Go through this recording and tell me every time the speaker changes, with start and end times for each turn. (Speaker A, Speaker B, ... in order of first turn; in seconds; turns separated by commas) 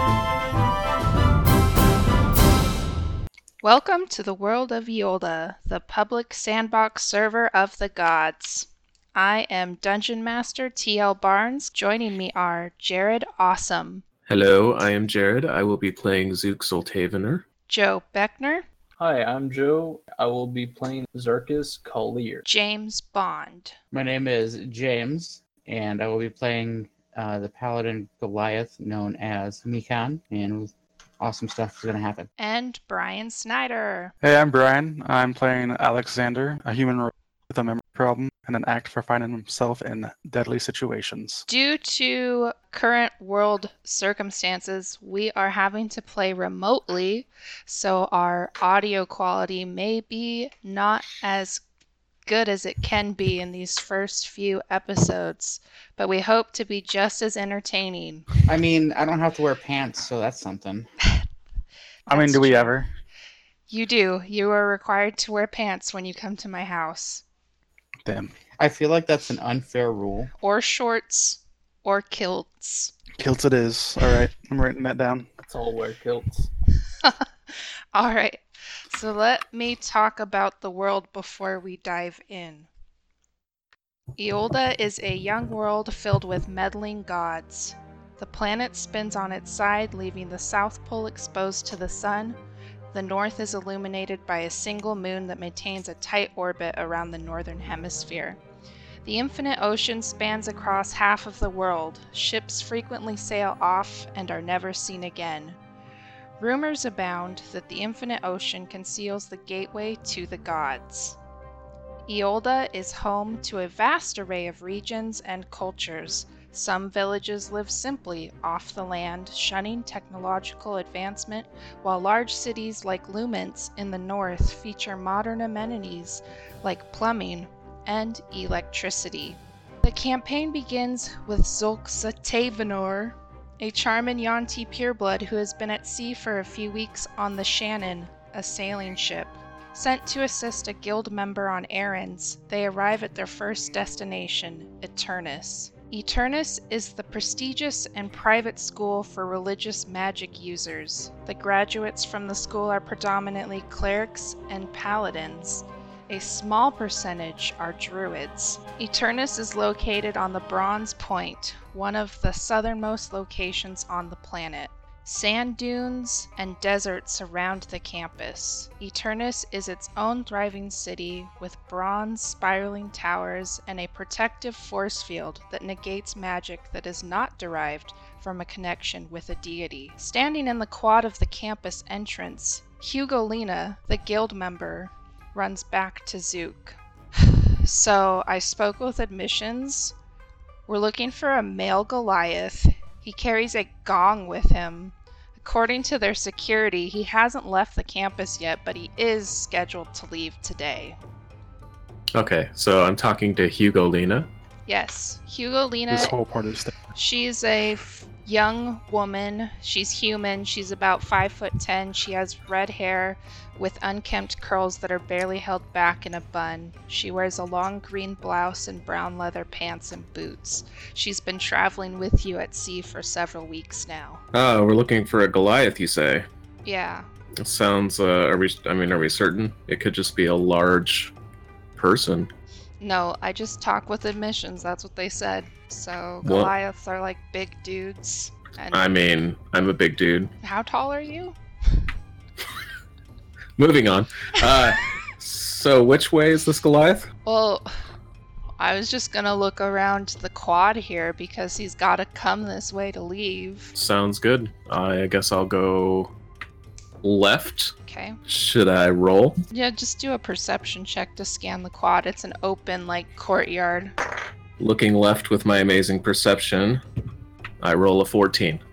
Speaker A: 3.6-14.0, Speaker B: 14.2-17.4, Speaker A: 17.7-18.6, Speaker C: 19.0-22.4, Speaker A: 22.4-23.7, Speaker D: 23.9-32.3, Speaker A: 32.4-34.1, Speaker E: 34.2-41.5, Speaker A: 41.5-51.6, Speaker A: 52.2-58.3, Speaker D: 58.5-60.9, Speaker E: 62.1-62.9, Speaker A: 62.1-62.8, Speaker A: 63.7-67.2, Speaker E: 68.0-68.3, Speaker D: 68.6-70.3, Speaker A: 70.4-72.9, Speaker E: 73.2-75.3, Speaker C: 75.4-76.5, Speaker A: 77.0-82.7, Speaker A: 84.2-92.4, Speaker A: 92.9-98.4, Speaker A: 99.0-105.6, Speaker A: 106.4-111.2, Speaker A: 112.1-189.9, Speaker A: 190.7-201.0, Speaker B: 202.1-204.3, Speaker A: 204.7-206.1, Speaker E: 205.9-206.8, Speaker A: 206.9-224.2, Speaker B: 224.3-226.3, Speaker A: 226.6-227.1, Speaker B: 227.4-231.1, Speaker B: 231.8-232.3, Speaker A: 232.8-238.9, Speaker B: 236.2-236.5, Speaker B: 238.7-240.3, Speaker A: 240.4-241.4, Speaker B: 243.6-247.1, Speaker A: 244.4-244.7, Speaker A: 247.2-247.7, Speaker A: 248.6-253.7, Speaker B: 253.7-256.1, Speaker B: 257.0-257.7, Speaker A: 257.9-258.2, Speaker B: 258.3-259.4, Speaker A: 259.5-263.9, Speaker B: 264.6-266.8, Speaker B: 267.6-268.6